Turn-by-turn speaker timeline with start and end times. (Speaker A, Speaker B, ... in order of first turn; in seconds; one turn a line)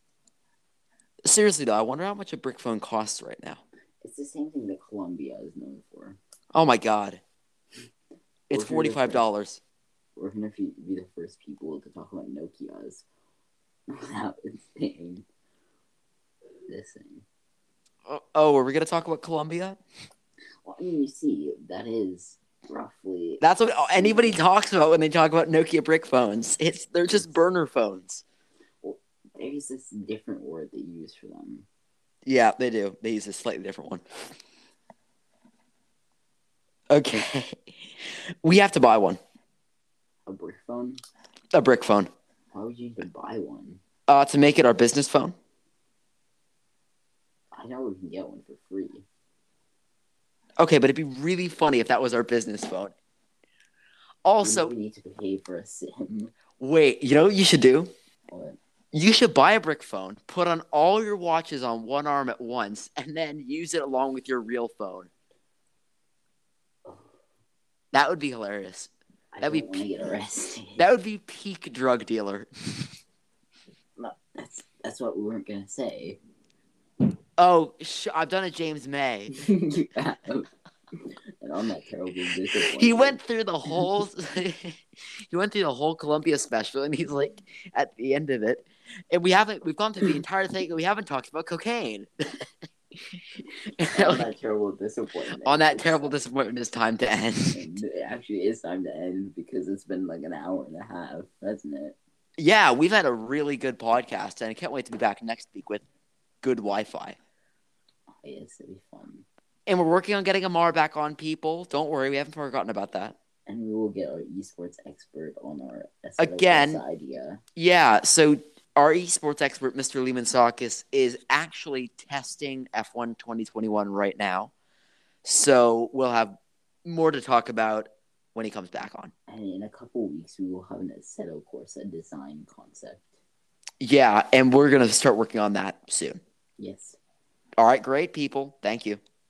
Speaker A: 1.2-3.6
Speaker B: 4.0-6.2
Speaker A: 6.5-7.2
Speaker A: 8.5-9.6
Speaker B: 8.5-9.2
Speaker B: 10.2-13.1
Speaker B: 13.9-15.2
Speaker B: 16.7-17.2
Speaker A: 18.1-19.8
Speaker B: 20.6-23.4
Speaker A: 23.4-28.2
Speaker B: 23.9-24.4
Speaker B: 28.8-31.7
Speaker A: 32.3-34.0
Speaker A: 36.9-37.6
Speaker A: 38.4-39.2
Speaker B: 40.3-41.0
Speaker A: 41.5-42.1
Speaker B: 42.5-43.8
Speaker A: 44.1-45.4
Speaker B: 47.5-49.0
Speaker A: 50.6-52.9
Speaker A: 54.2-54.7
Speaker B: 54.4-56.3
Speaker A: 56.6-57.9
Speaker B: 58.3-58.6
Speaker A: 58.9-65.1
Speaker B: 66.8-67.1
Speaker A: 67.9-69.8
Speaker B: 69.3-70.8
Speaker A: 70.8-72.9
Speaker B: 74.0-76.2
Speaker A: 77.4-79.3
Speaker B: 79.3-80.5
Speaker B: 81.4-83.2
Speaker A: 82.5-92.1
Speaker A: 93.8-94.3
Speaker B: 93.8-96.2
Speaker A: 95.4-97.7
Speaker B: 97.5-102.0
Speaker A: 102.4-105.8
Speaker A: 106.4-107.2
Speaker B: 108.1-109.2
Speaker A: 109.7-113.1
Speaker B: 113.5-117.4
Speaker A: 116.2-116.8
Speaker A: 117.6-124.5
Speaker A: 125.2-129.1
Speaker B: 129.3-133.2
Speaker A: 133.8-136.2
Speaker B: 136.6-137.0
Speaker A: 137.6-139.0